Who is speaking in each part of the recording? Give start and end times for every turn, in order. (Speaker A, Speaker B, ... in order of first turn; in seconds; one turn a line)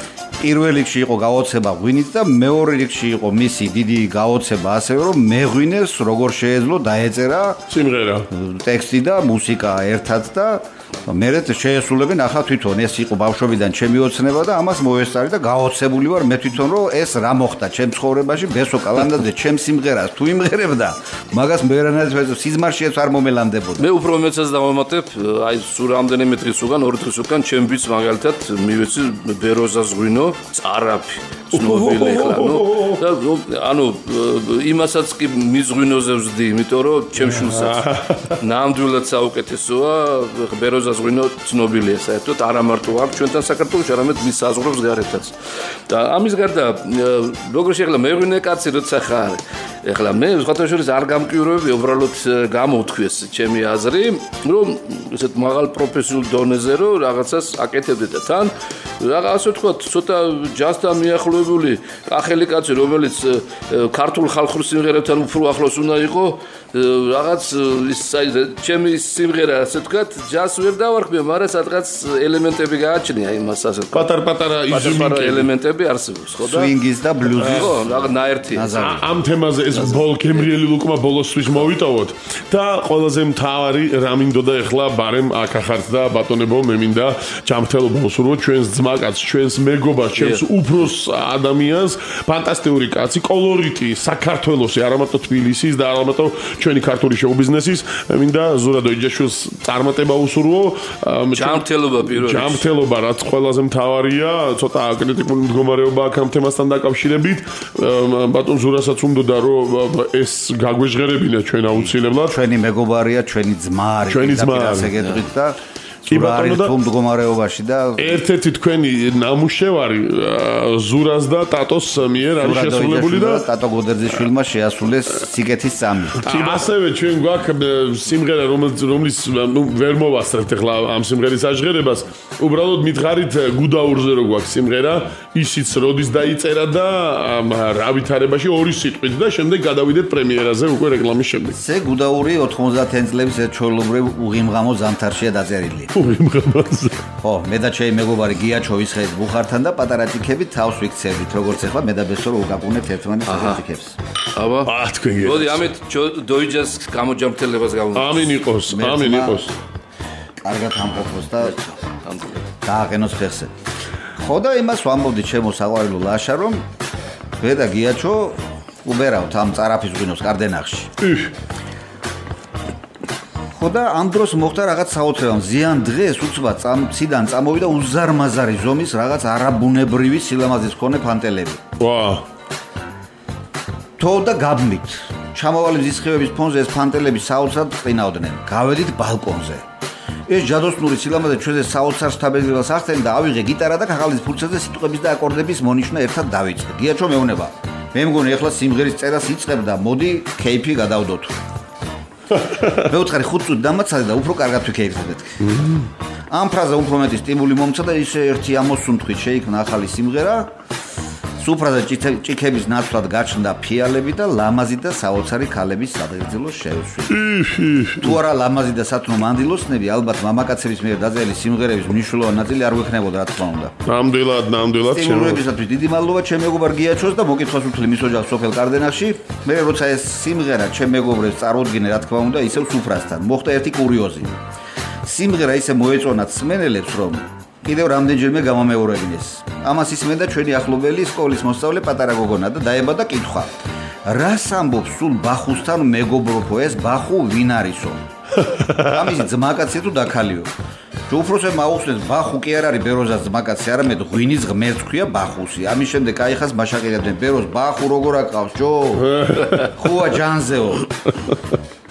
Speaker A: 0.4-7.6
Speaker B: 7.7-8.3
Speaker A: 8.3-23.9
Speaker C: 23.8-45.4
Speaker B: 31.5-33.0
Speaker B: 37.3-38.4
Speaker C: 45.9-74.1
Speaker B: 73.9-75.5
Speaker C: 74.7-76.8
Speaker A: 76.4-77.8
Speaker C: 77.3-78.8
Speaker B: 77.4-77.9
Speaker A: 78.5-79.1
Speaker B: 78.7-112.3
Speaker C: 79.7-80.5
Speaker C: 90.2-90.4
Speaker C: 101.3-102.6
Speaker A: 111.8-118.2
Speaker B: 114.1-114.9
Speaker B: 116.1-116.7
Speaker B: 118.0-123.5
Speaker A: 122.4-126.3
Speaker B: 126.2-141.6
Speaker A: 141.5-145.9
Speaker B: 145.9-147.0
Speaker A: 147.2-154.0
Speaker C: 153.2-153.6
Speaker C: 154.3-158.4
Speaker B: 154.7-155.7
Speaker B: 157.9-159.5
Speaker A: 158.7-159.4
Speaker A: 160.4-161.6
Speaker C: 161.4-162.4
Speaker A: 162.6-163.5
Speaker A: 164.2-166.6
Speaker A: 167.4-170.9
Speaker B: 171.0-171.3
Speaker A: 173.6-181.6
Speaker B: 181.8-182.2
Speaker A: 184.0-189.6
Speaker A: 190.3-201.3
Speaker A: 202.6-205.4
Speaker B: 205.4-205.9
Speaker A: 206.3-210.5
Speaker A: 211.4-217.2
Speaker B: 217.1-218.2
Speaker A: 218.0-223.7
Speaker B: 223.8-225.4
Speaker A: 224.9-234.4
Speaker A: 235.0-243.5
Speaker A: 244.1-248.0
Speaker B: 248.4-248.9
Speaker A: 248.8-250.5
Speaker A: 251.1-260.9
Speaker B: 259.0-259.8